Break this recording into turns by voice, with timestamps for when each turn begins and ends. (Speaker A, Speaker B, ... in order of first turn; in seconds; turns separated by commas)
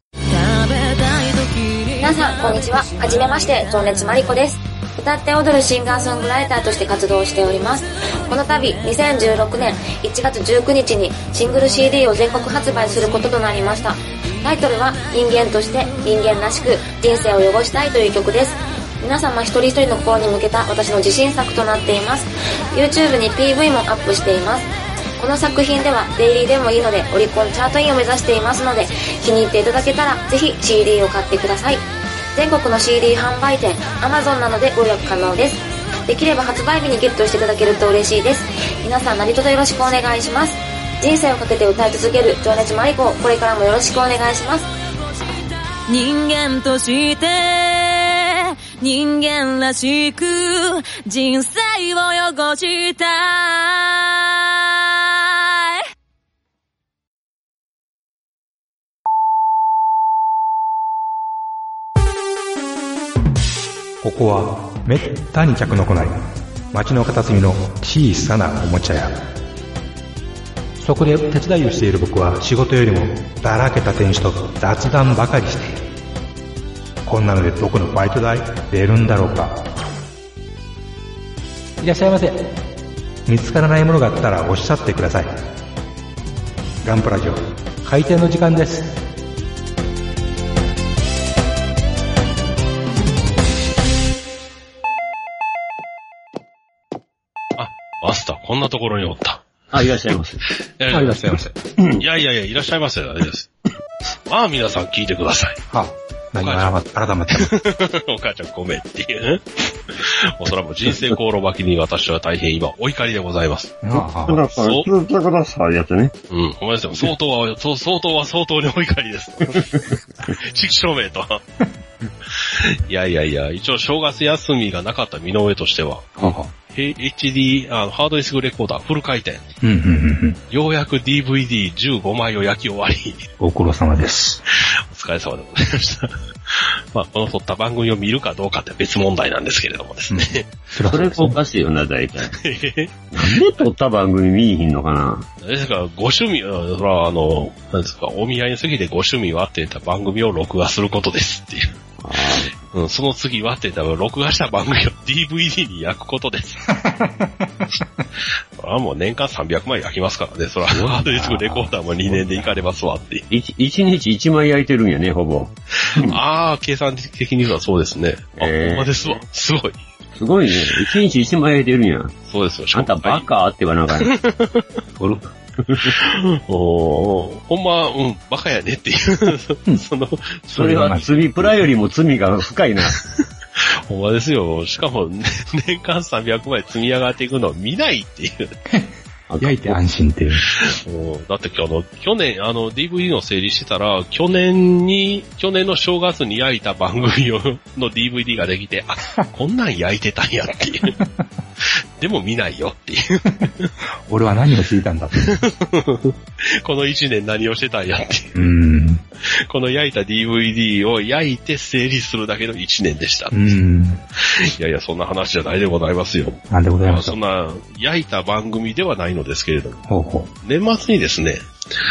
Speaker A: 0.3-4.2, Speaker B: 2.0-31.8, Speaker B: 32.4-44.7, Speaker A: 45.9-55.8, Speaker C: 64.0-69.2, Speaker C: 70.8-75.8, Speaker C: 77.0-79.7, Speaker C: 81.8-82.5, Speaker C: 83.3-85.5, Speaker C: 86.8-89.0, Speaker D: 97.6-99.4, Speaker E: 99.7-100.4, Speaker D: 100.8-101.4, Speaker C: 100.9-101.5, Speaker D: 102.0-103.5, Speaker D: 104.3-105.6, Speaker C: 105.7-107.5, Speaker D: 106.4-106.8, Speaker D: 107.3-109.4, Speaker D: 110.0-114.9, Speaker C: 113.8-114.4, Speaker E: 114.0-116.1, Speaker D: 116.3-121.4, Speaker D: 122.4-129.4, Speaker C: 126.2-126.5, Speaker C: 129.6-130.4, Speaker D: 130.5-133.3, Speaker C: 133.4-134.4, Speaker D: 134.9-140.5, Speaker C: 140.1-141.4, Speaker E: 140.9-142.3, Speaker D: 142.3-143.7, Speaker E: 143.1-145.3, Speaker D: 145.4-151.7, Speaker E: 152.0-152.5, Speaker D: 152.7-156.7, Speaker C: 156.7-157.7, Speaker D: 158.6-163.3, Speaker E: 160.7-161.7, Speaker C: 162.1-162.4, Speaker E: 163.3-166.2, Speaker D: 166.0-169.8, Speaker E: 168.4-169.2, Speaker E: 170.2-172.2, Speaker D: 170.6-170.9, Speaker D: 172.3-173.3, Speaker E: 172.7-174.1, Speaker D: 174.0-174.6, Speaker C: 175.0-175.2, Speaker E: 175.7-175.9, Speaker D: 175.9-181.2, Speaker C: 180.5-181.1, Speaker E: 180.6-183.0, Speaker D: 183.9-188.5, Speaker C: 188.7-190.5, Speaker E: 189.3-189.8, Speaker D: 190.6-201.0, Speaker D: 202.0-203.7, Speaker C: 204.1-205.4, Speaker D: 205.2-208.3, Speaker C: 208.3-209.0, Speaker D: 209.5-213.6, Speaker C: 213.3-214.0, Speaker D: 214.4-219.8, Speaker C: 216.5-217.2, Speaker C: 219.9-220.3, Speaker D: 220.4-221.4